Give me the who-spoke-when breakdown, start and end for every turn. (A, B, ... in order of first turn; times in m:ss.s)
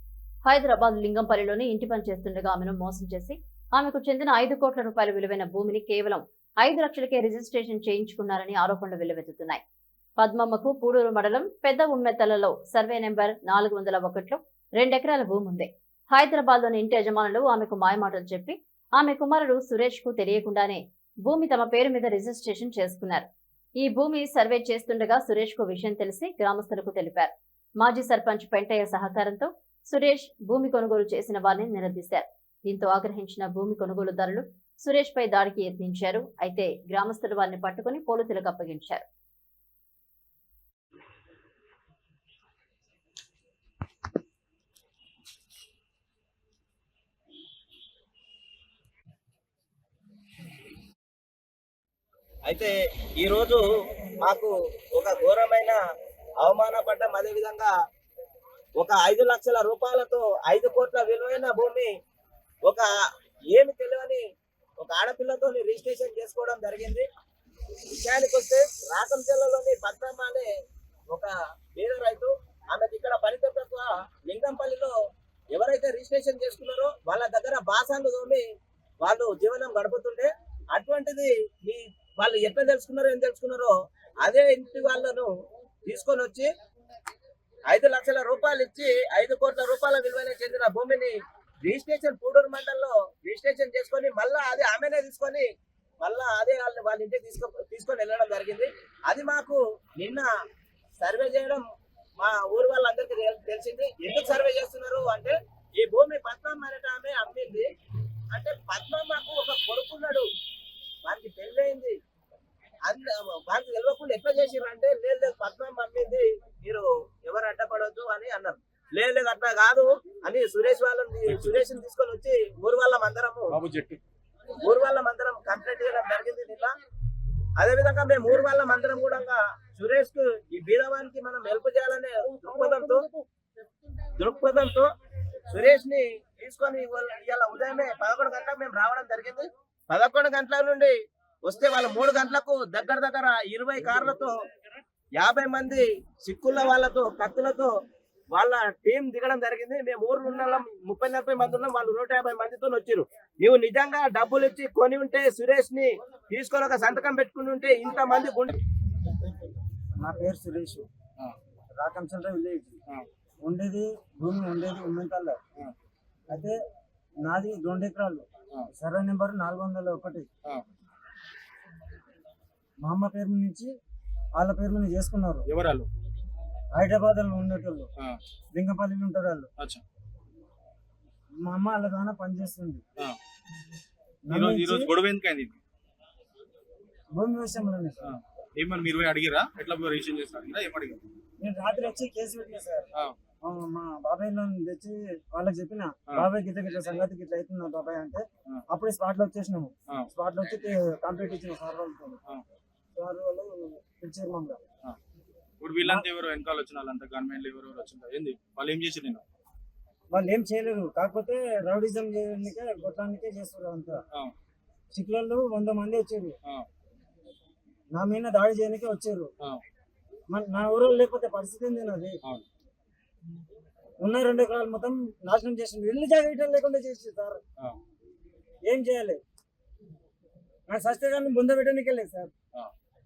0:00.4-0:09.6 A
0:10.2-0:23.3 A
0:23.8-0:39.0 A
0:52.5-0:53.6 B
0:54.2-0:55.8 B
0:56.4-0:57.7 B
0:58.8-1:01.9 B
1:03.5-1:04.2 B
1:04.8-1:07.0 B
1:07.9-1:10.5 B
1:11.1-1:14.9 B
1:15.5-1:18.4 B
1:19.0-1:23.7 B
1:24.2-1:25.3 B
1:25.9-1:26.5 B
1:27.7-1:31.1 B
1:31.6-1:35.5 B
1:36.0-1:40.3 B
1:41.0-1:41.7 B
1:42.2-1:47.7 B
1:48.3-1:50.2 B
1:51.0-1:52.0 B
1:52.9-2:03.6 B
2:01.3-2:01.6 C
2:03.5-2:04.0 C
2:04.6-2:06.7 B
2:07.6-2:13.0 B
2:14.2-2:14.9 B
2:15.5-2:21.0 B
2:21.5-2:24.3 B
2:25.2-2:27.7 B
2:28.3-2:38.6 B
2:40.0-2:40.9 D
2:41.8-2:42.8 D
2:43.4-2:45.4 D
2:46.3-2:46.6 D
2:47.2-2:50.3 D
2:52.8-2:53.7 D
2:54.4-2:55.4 D
2:55.5-2:55.9 C
2:56.8-2:57.9 D
2:58.6-2:59.5 D
3:01.4-3:02.8 D
3:04.3-3:04.9 D
3:04.3-3:05.6 C
3:07.2-3:08.2 D
3:08.0-3:11.0 C
3:11.4-3:12.9 D
3:13.4-3:22.2 D
3:23.0-3:24.6 D
3:25.6-3:29.2 C
3:30.1-3:34.0 D
3:34.9-3:36.4 D
3:37.9-3:39.3 D
3:40.3-3:42.2 D
3:44.0-3:47.4 D
3:48.7-3:49.2 D
3:50.7-3:52.3 D